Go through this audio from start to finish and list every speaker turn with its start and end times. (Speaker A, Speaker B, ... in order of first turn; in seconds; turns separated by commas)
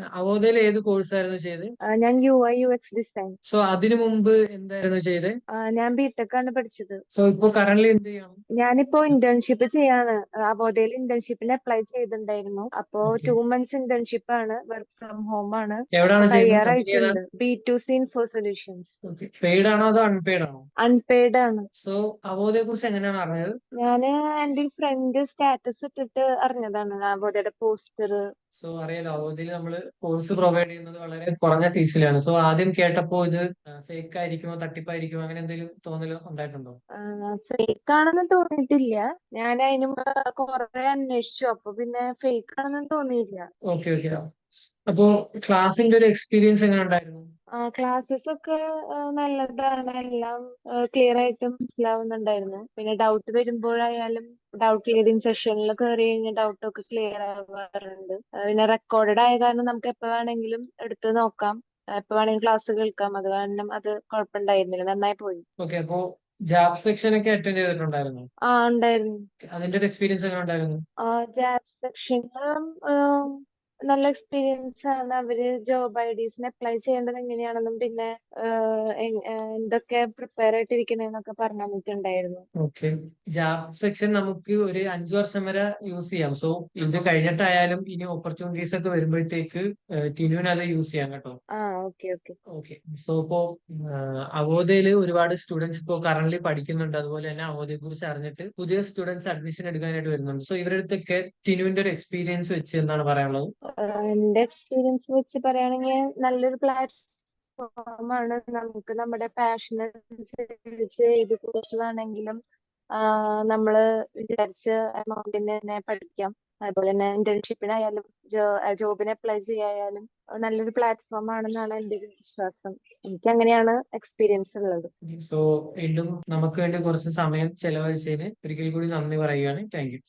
Speaker A: 0.2-1.7, Speaker B: 1.9-3.4, Speaker A: 3.5-5.4, Speaker B: 5.6-7.0, Speaker A: 7.1-8.4, Speaker B: 8.6-18.9, Speaker A: 13.0-13.3, Speaker A: 15.9-17.2, Speaker A: 19.0-20.7, Speaker B: 20.8-21.7, Speaker A: 21.8-23.6, Speaker B: 23.8-28.2, Speaker A: 28.6-36.8, Speaker B: 37.0-43.5, Speaker A: 43.7-44.2, Speaker A: 44.9-47.3, Speaker B: 47.6-65.5, Speaker A: 65.6-68.3, Speaker B: 68.5-69.2, Speaker A: 69.5-70.8, Speaker B: 71.0-82.4, Speaker A: 82.6-91.4, Speaker B: 91.6-92.4, Speaker A: 92.5-103.5, Speaker B: 103.7-107.0, Speaker B: 107.6-112.4, Speaker B: 113.0-124.9, Speaker A: 125.1-130.0